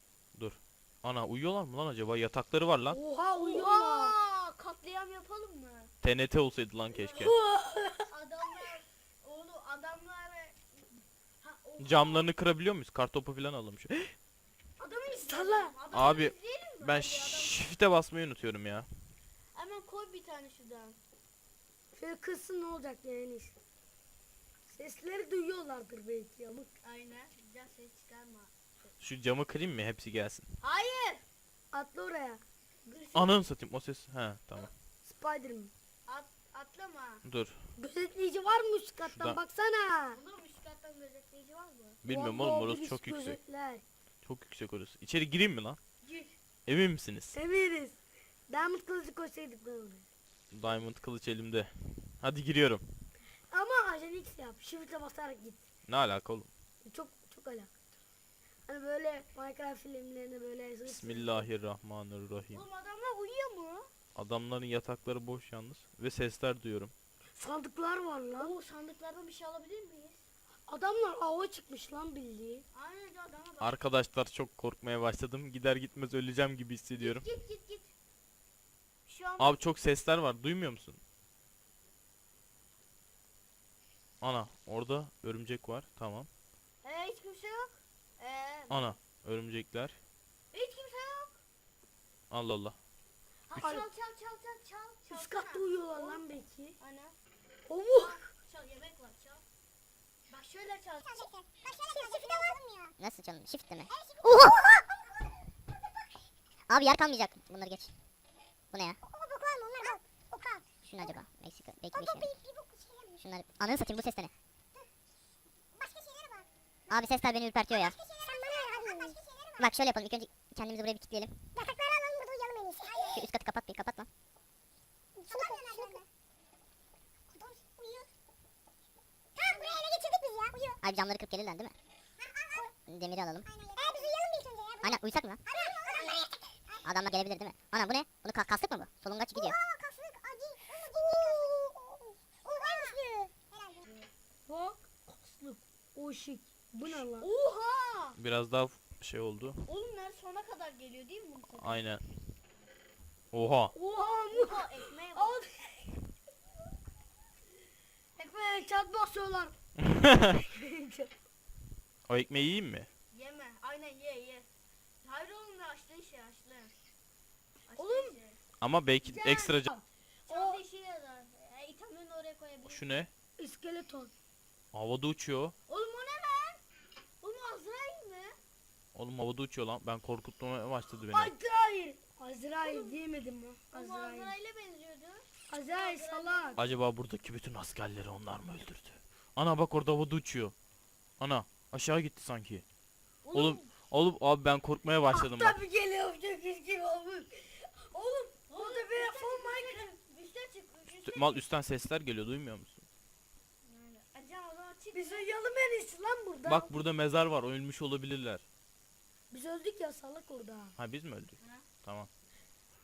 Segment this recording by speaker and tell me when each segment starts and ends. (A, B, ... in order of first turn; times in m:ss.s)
0:00.4-0:03.0 A
0:02.9-0:04.2 B
0:03.4-0:05.9 C
0:06.0-0:07.4 A
0:06.9-0:07.2 C
0:07.2-0:08.6 B
0:08.1-0:12.3 C
0:11.8-0:14.1 A
0:14.8-0:17.6 C
0:15.1-0:15.8 B
0:15.9-0:18.9 A
0:19.5-0:21.0 C
0:22.0-0:23.5 B
0:24.7-0:26.7 B
0:26.8-0:28.5 C
0:29.0-0:30.5 A
0:30.6-0:31.2 C
0:31.7-0:33.0 B
0:32.9-0:33.4 C
0:33.2-0:34.7 A
0:35.0-0:35.7 B
0:36.1-0:37.2 C
0:37.2-0:37.6 A
0:37.8-0:40.2 B
0:39.0-0:39.4 A
0:40.1-0:42.0 C
0:42.0-0:43.4 A
0:42.1-0:43.8 B
0:44.2-0:45.8 A
0:46.0-0:46.4 C
0:46.7-0:47.4 A
0:47.3-0:50.0 B
0:50.5-0:52.9 A
0:53.5-0:55.6 B
0:55.9-0:56.5 A
0:56.8-0:57.7 B
0:58.7-1:01.5 B
1:00.8-1:02.6 A
1:02.5-1:03.9 C
1:04.2-1:06.9 A
1:07.4-1:08.5 B
1:08.4-1:10.2 C
1:10.7-1:12.6 B
1:12.7-1:13.8 C
1:13.6-1:17.3 A
1:17.0-1:17.9 C
1:19.1-1:19.6 C
1:19.4-1:21.0 A
1:24.2-1:26.3 A
1:26.8-1:29.0 C
1:28.7-1:30.0 A
1:30.5-1:31.4 C
1:32.3-1:32.8 A
1:33.5-1:36.2 C
1:33.6-1:33.9 B
1:35.1-1:36.8 B
1:36.8-1:37.2 C
1:37.7-1:38.3 B
1:37.9-1:39.4 C
1:40.3-1:41.3 C
1:41.1-1:43.0 D
1:42.0-1:42.4 C
1:43.0-1:44.8 E
1:43.9-1:45.3 D
1:46.7-1:48.0 E
1:48.7-1:49.0 E
1:49.0-1:51.2 D
1:50.8-1:52.3 E
1:51.9-1:53.2 D
1:53.2-1:54.3 E
1:55.8-1:56.5 D
1:56.9-1:58.0 E
1:57.7-1:59.7 D
1:58.8-2:01.6 E
2:01.6-2:03.2 D
2:03.0-2:04.1 E
2:05.2-2:06.0 D
2:07.3-2:08.1 D
2:09.4-2:10.8 D
2:10.8-2:11.8 E
2:12.2-2:12.8 D
2:12.8-2:13.5 E
2:13.5-2:16.9 D
2:14.8-2:15.4 E
2:16.8-2:19.6 E
2:19.4-2:23.8 D
2:23.8-2:24.1 C
2:24.5-2:27.3 B
2:26.8-2:28.2 C
2:28.2-2:29.7 A
2:29.7-2:31.9 C
2:31.6-2:32.0 A
2:33.3-2:33.7 A
2:33.8-2:36.0 B
2:34.3-2:35.4 C
2:38.2-2:39.6 B
2:39.8-2:40.4 A
2:40.4-2:41.1 B
2:42.1-2:42.9 A
2:43.1-2:44.5 C
2:45.0-2:46.7 C
2:47.7-2:48.4 C
2:47.8-2:48.2 B
2:48.6-2:49.7 A
2:49.0-2:50.6 B
2:50.3-2:52.8 C
2:52.6-2:53.1 A
2:53.4-2:54.1 B
2:54.7-2:55.6 A
2:55.7-2:56.6 C
2:57.2-2:58.3 C
2:59.0-3:01.3 A
3:01.1-3:04.3 B
3:02.6-3:03.0 C
3:03.7-3:06.7 C
3:05.5-3:06.6 B
3:06.6-3:10.6 A
3:11.2-3:12.6 A
3:13.2-3:13.7 C
3:13.3-3:15.6 A
3:15.1-3:19.9 B
3:18.5-3:21.4 C
3:21.0-3:22.8 A
3:23.6-3:25.3 C
3:24.9-3:26.8 B
3:26.4-3:28.4 A
3:29.3-3:30.7 B
3:30.8-3:32.1 A
3:31.4-3:31.6 C